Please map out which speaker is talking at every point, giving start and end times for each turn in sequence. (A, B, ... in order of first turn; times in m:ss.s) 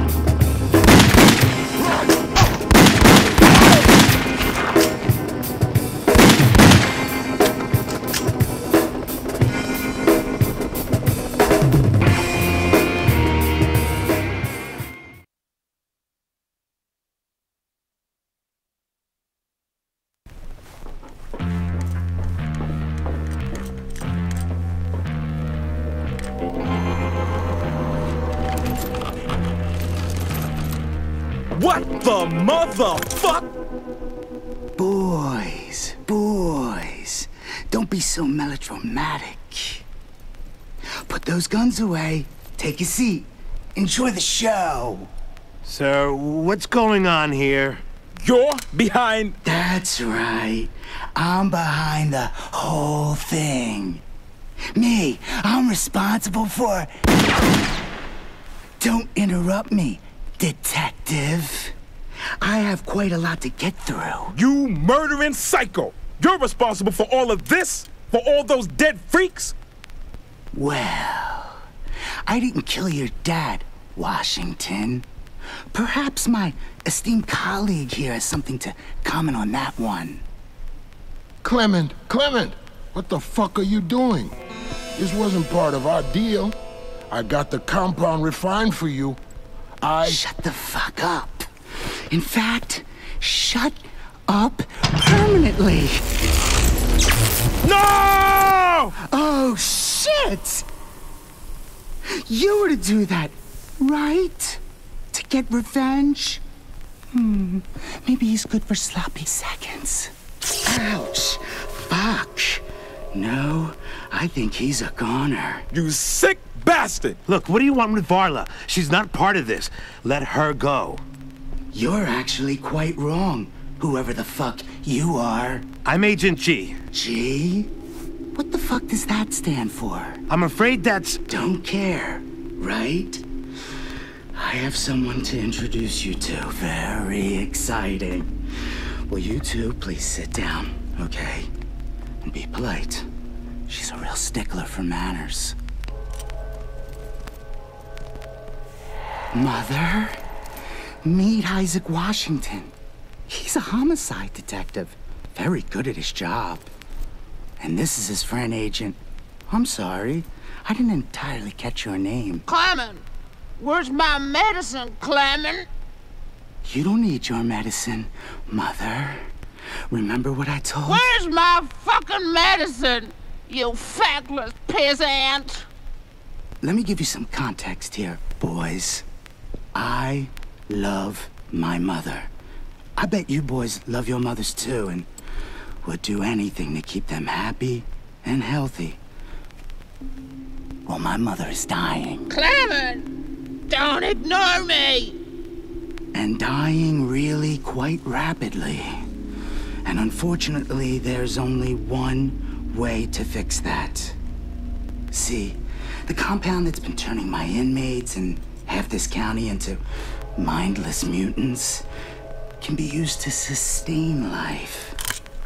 0:31.6-0:33.4 A
0:34.8-0:39.8 B
0:41.0-0:45.1 B
0:45.6-0:47.8 C
0:48.3-0:49.3 A
0:49.4-0:54.0 B
0:54.7-0:56.9 B
0:58.8-1:01.8 B
1:02.4-1:04.4 B
1:04.4-1:09.5 A
1:10.5-1:11.6 B
1:12.3-1:15.1 B
1:15.7-1:20.2 B
1:21.4-1:24.4 D
1:25.0-1:26.6 D
1:27.1-1:29.2 D
1:29.8-1:30.2 D
1:30.0-1:31.5 B
1:32.1-1:36.0 B
1:37.7-1:38.7 E
1:39.0-1:40.7 B
1:42.2-1:46.4 B
1:47.1-1:50.1 B
1:50.6-1:55.7 B
1:55.8-1:56.9 A
1:57.3-2:01.0 C
2:01.7-2:05.7 B
2:05.8-2:06.8 C
2:06.9-2:07.7 B
2:08.4-2:10.2 B
2:10.3-2:11.2 C
2:11.3-2:13.2 B
2:14.3-2:18.3 B
2:19.1-2:21.5 B
2:22.2-2:23.1 B
2:23.7-2:25.6 B
2:29.3-2:30.2 B
2:31.0-2:32.7 B
2:33.3-2:36.7 B
2:37.6-2:42.4 B
2:42.5-2:43.0 E
2:43.6-2:45.7 E
2:46.6-2:49.3 B
2:49.9-2:51.1 B
2:50.9-2:55.7 E
2:56.6-2:59.1 B
2:59.8-3:02.3 B
3:03.0-3:05.1 B
3:05.8-3:09.0 B
3:10.9-3:12.3 B
3:12.3-3:13.1 E
3:13.7-3:15.2 E
3:16.1-3:19.1 B
3:19.8-3:24.2 B
3:25.1-3:29.8 B
3:30.4-3:31.9 B
3:32.6-3:35.0 B